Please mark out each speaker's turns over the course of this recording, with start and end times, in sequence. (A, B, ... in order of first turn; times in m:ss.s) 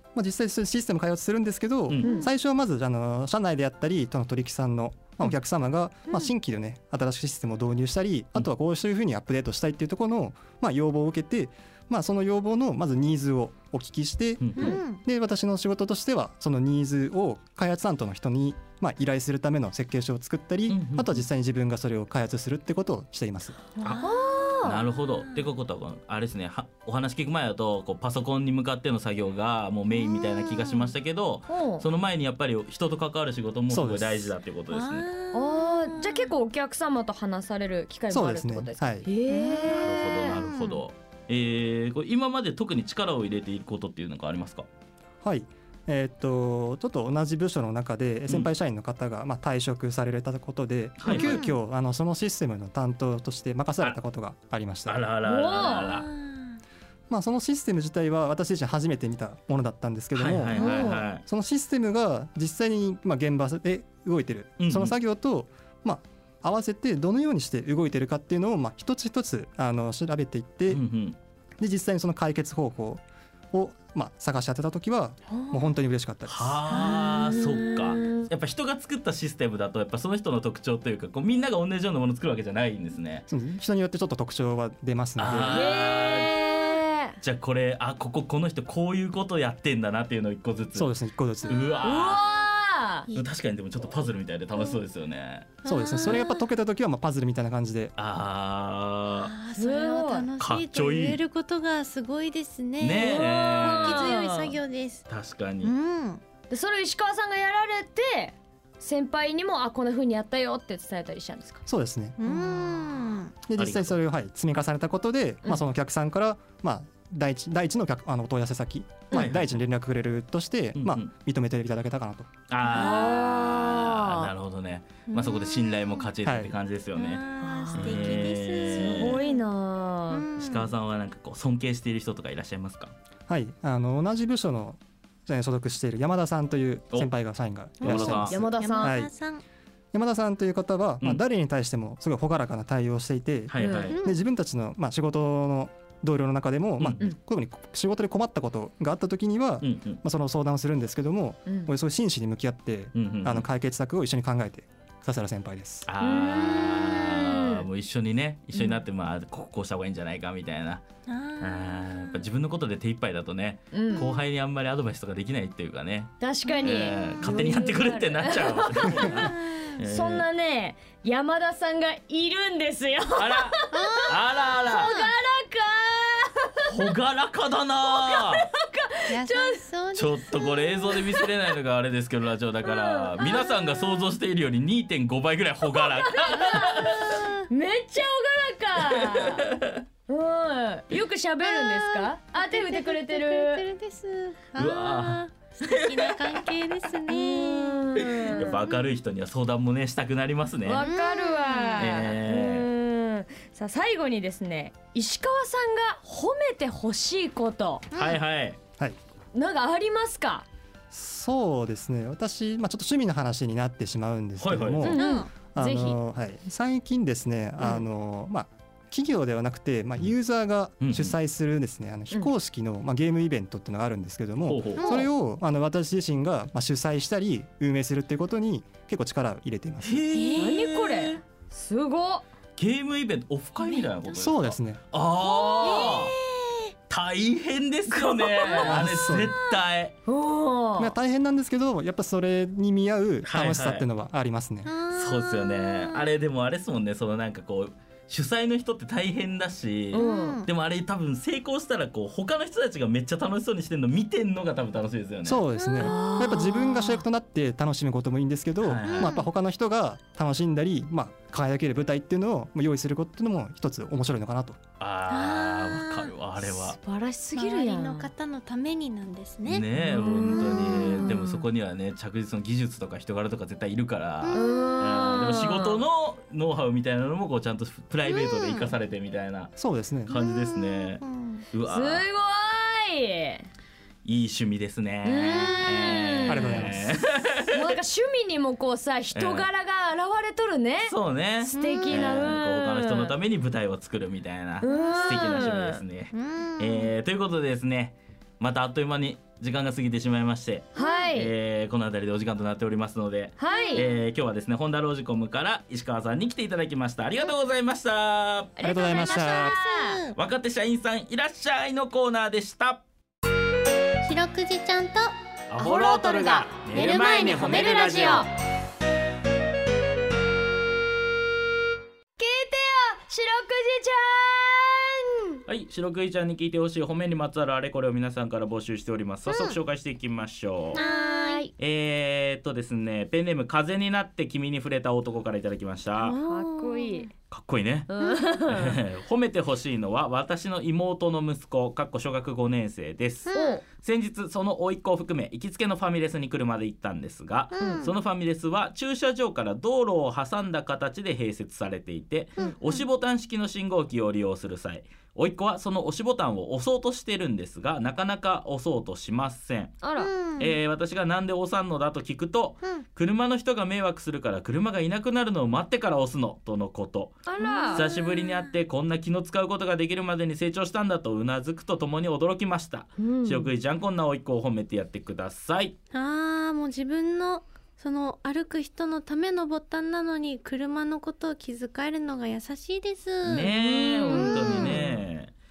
0:00.2-0:23.6 A
0:01.9-0:02.2 B
0:02.0-0:02.3 C
0:14.4-0:14.8 B
0:14.6-0:15.0 D
0:20.7-0:21.2 B
0:23.8-0:25.4 D
0:23.9-0:24.8 C
0:24.6-0:35.1 B
0:29.9-0:30.9 D
0:31.5-0:31.8 C
0:33.7-0:34.3 A
0:34.7-0:36.3 D
0:35.3-0:40.4 C
0:38.1-0:39.1 A
0:39.3-0:40.8 D
0:39.7-0:44.7 B
0:45.2-0:55.0 A
0:51.0-0:51.4 B
0:51.1-0:51.6 D
0:54.9-0:56.1 B
0:55.2-0:56.0 C
0:55.5-0:56.6 D
0:57.1-1:10.8 A
1:00.1-1:01.2 B
1:00.6-1:00.9 D
1:00.6-1:01.0 C
1:04.6-1:05.0 B
1:10.7-1:11.2 B
1:11.6-1:16.7 A
1:15.4-1:15.6 D
1:16.3-1:23.2 B
1:16.7-1:18.3 C
1:16.7-1:17.0 D
1:23.3-1:25.7 A
1:25.2-1:26.4 B
1:25.5-1:27.2 C
1:27.2-1:30.9 B
1:30.8-1:31.7 A
1:31.5-1:31.8 D
1:31.5-1:32.2 B
1:31.8-1:33.1 C
1:33.1-1:35.5 B
1:35.6-1:36.4 D
1:35.6-1:37.9 A
1:38.0-1:39.3 B
1:39.1-1:45.0 D
1:39.5-1:40.3 C
1:40.4-1:41.2 B
1:42.8-1:44.2 B
1:43.1-1:44.6 C
1:45.1-1:45.7 B
1:45.6-1:46.2 D
1:46.5-1:51.6 C
1:51.7-1:52.2 A
1:52.2-1:53.3 D
1:52.2-1:53.0 C
1:53.4-2:02.3 A
1:53.6-1:54.0 B
1:59.1-1:59.6 B
2:00.8-2:01.1 B
2:02.5-2:07.2 B
2:02.7-2:04.3 C
2:05.1-2:06.1 D
2:06.2-2:06.5 A
2:07.0-2:09.4 D
2:07.4-2:10.2 C
2:07.7-2:09.2 B
2:10.1-2:10.7 D
2:10.4-2:12.9 B
2:13.3-2:19.1 A
2:17.8-2:18.4 B
2:17.8-2:19.4 D
2:17.9-2:19.0 C
2:19.9-2:35.9 A
2:23.5-2:24.0 B
2:23.6-2:23.9 C
2:23.9-2:24.2 D
2:29.6-2:30.0 B
2:33.0-2:33.4 B
2:35.9-2:40.8 B
2:36.0-2:37.6 C
2:41.1-2:42.2 D
2:41.4-2:50.2 B
2:43.7-2:44.1 C
2:46.2-2:56.7 C
2:46.5-2:47.5 D
2:48.9-2:49.8 D
2:53.2-2:54.9 B
2:53.7-2:55.1 D
2:56.6-2:58.5 B
2:57.9-2:59.6 C
2:59.1-3:00.9 D
2:59.9-3:07.2 B
3:00.9-3:01.3 C
3:02.6-3:03.9 C
3:05.7-3:09.5 C
3:06.3-3:07.4 D
3:08.8-3:09.8 B
3:10.1-3:13.6 C
3:11.4-3:18.8 D
3:14.6-3:16.4 B
3:17.1-3:18.6 C
3:18.3-3:20.9 B
3:20.6-3:27.8 C
3:20.7-3:22.1 D
3:21.8-3:22.7 B
3:27.9-3:28.2 D
3:27.9-3:28.6 B
3:29.4-3:30.5 C
3:30.9-3:50.0 A
3:34.4-3:35.0 B
3:34.8-3:36.0 C
3:34.9-3:35.3 D
3:40.8-3:41.1 B
3:44.5-3:45.0 B
3:44.8-3:45.1 D
3:49.8-3:51.2 B
3:50.1-3:50.6 D
3:50.4-3:52.3 C
3:52.6-3:56.1 B
3:53.6-3:54.1 D
3:54.2-3:54.8 A
3:55.2-3:56.6 D
3:55.6-3:56.0 C
3:56.9-3:59.9 B
3:57.9-3:58.6 C
3:58.6-3:59.4 A
4:00.1-4:00.9 C
4:00.8-4:04.7 A
4:03.2-4:03.8 B
4:04.6-4:06.1 D
4:04.9-4:15.4 B
4:09.9-4:10.4 C
4:09.9-4:10.5 D
4:15.2-4:24.6 A
4:15.6-4:16.1 D
4:15.8-4:17.0 C
4:18.6-4:19.2 B
4:18.9-4:19.3 D
4:24.8-4:26.8 B
4:25.1-4:26.1 D
4:26.4-4:28.1 C
4:27.4-4:29.7 D
4:29.5-4:39.5 B
4:29.8-4:31.4 C
4:34.2-4:34.7 D
4:34.3-4:35.8 C
4:38.1-4:38.7 D
4:39.6-4:40.1 A
4:40.1-4:42.1 B
4:40.1-4:41.4 D
4:41.7-4:43.5 C
4:44.0-4:47.8 B
4:45.0-4:46.7 C
4:46.3-4:47.0 A
4:47.5-4:53.1 C
4:49.1-4:49.5 B
4:50.9-5:08.5 B
4:51.5-4:52.2 D
4:54.6-4:55.8 C
4:54.6-4:55.4 D
4:56.1-4:56.9 D
5:00.8-5:01.3 C
5:00.8-5:01.0 D
5:03.4-5:03.9 C
5:03.5-5:04.0 D
5:08.6-5:10.0 C
5:08.6-5:09.6 A
5:08.9-5:10.2 D
5:10.2-5:12.8 B
5:14.0-5:15.1 D
5:15.5-5:18.3 B
5:15.6-5:18.3 C
5:15.7-5:18.3 D
5:22.2-5:25.4 C
5:25.5-5:30.8 B
5:29.3-5:29.6 D
5:30.7-5:31.5 C
5:30.8-5:31.4 D
5:31.6-5:36.2 B
5:36.0-5:37.1 D
5:36.2-5:37.1 C
5:37.3-5:37.9 B
5:37.9-5:38.8 C
5:38.5-5:59.8 B
5:43.3-5:43.6 D
5:43.3-5:43.6 C
5:47.5-5:47.9 D
5:47.6-5:47.9 C
5:52.4-5:52.8 D
5:59.8-6:00.1 C
6:00.0-6:00.6 D
6:00.4-6:07.2 B
6:07.3-6:07.9 C
6:07.4-6:08.5 D
6:07.7-6:15.8 B
6:13.0-6:13.5 C
6:15.9-6:23.5 D
6:23.2-6:25.3 B
6:23.5-6:25.0 C
6:24.1-6:24.9 D